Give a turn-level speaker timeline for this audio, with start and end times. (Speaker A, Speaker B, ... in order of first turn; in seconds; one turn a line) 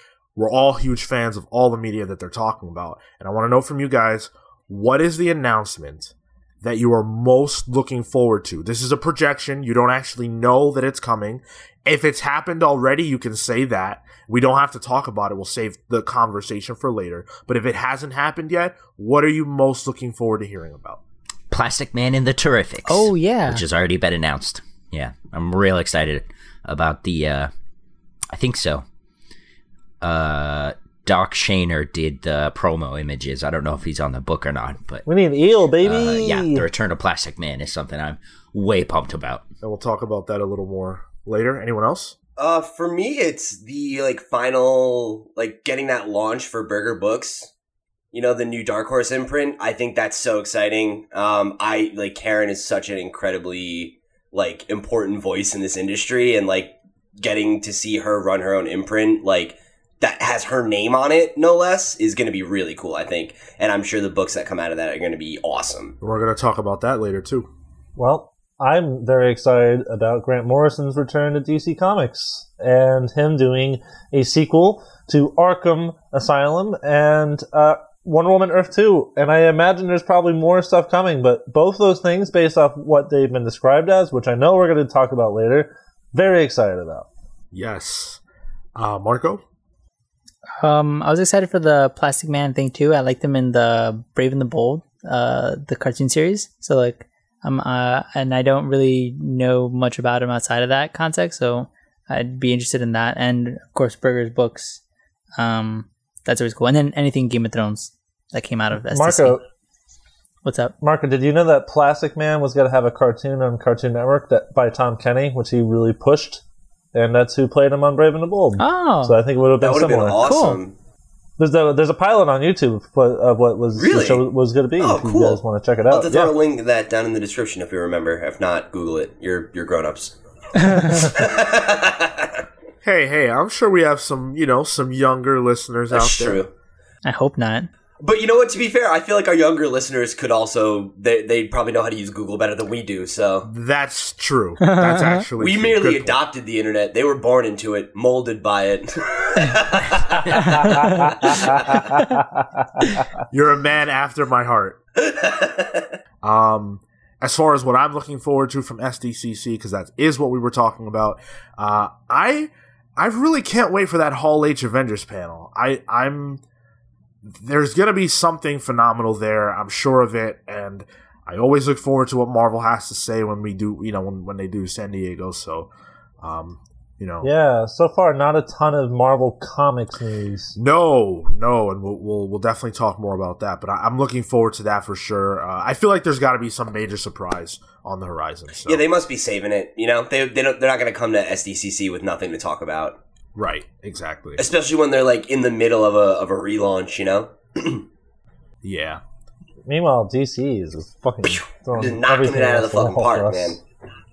Speaker A: 0.3-21.0
Speaker B: 21.5-27.5
Speaker C: 22.9-23.6
Speaker B: 28.3-28.8
Speaker B: 30.0-35.0
Speaker D: 35.0-36.7
Speaker B: 35.8-39.4
Speaker A: 39.6-42.1
Speaker E: 42.4-47.5
Speaker E: 48.1-66.0
Speaker A: 66.0-67.5
Speaker D: 68.0-87.1
Speaker A: 87.5-88.2
Speaker A: 88.8-89.4
Speaker C: 90.6-104.8
Speaker C: 105.4-109.4
Speaker D: 108.9-109.4
Speaker C: 110.4-110.7
Speaker D: 110.8-116.4
Speaker D: 116.9-120.3
Speaker C: 118.6-119.2
Speaker E: 119.6-120.7
Speaker C: 120.2-120.6
Speaker D: 121.4-126.3
Speaker E: 123.8-124.2
Speaker E: 124.8-132.4
Speaker A: 132.8-136.4
Speaker E: 135.9-136.5
Speaker C: 137.0-137.7
Speaker E: 138.0-143.5
Speaker A: 143.4-146.2
Speaker C: 144.6-145.2
Speaker E: 145.4-150.7
Speaker C: 150.4-151.2
Speaker D: 150.8-152.2
Speaker E: 151.2-151.8
Speaker A: 153.3-154.8
Speaker E: 155.0-155.9
Speaker A: 156.2-166.4
Speaker A: 167.2-177.3
Speaker D: 177.2-180.6
Speaker A: 180.6-188.8
Speaker E: 188.6-193.0
Speaker A: 193.3-194.4
Speaker E: 194.4-197.8
Speaker A: 198.6-199.0
Speaker D: 199.6-203.6
Speaker E: 201.2-203.6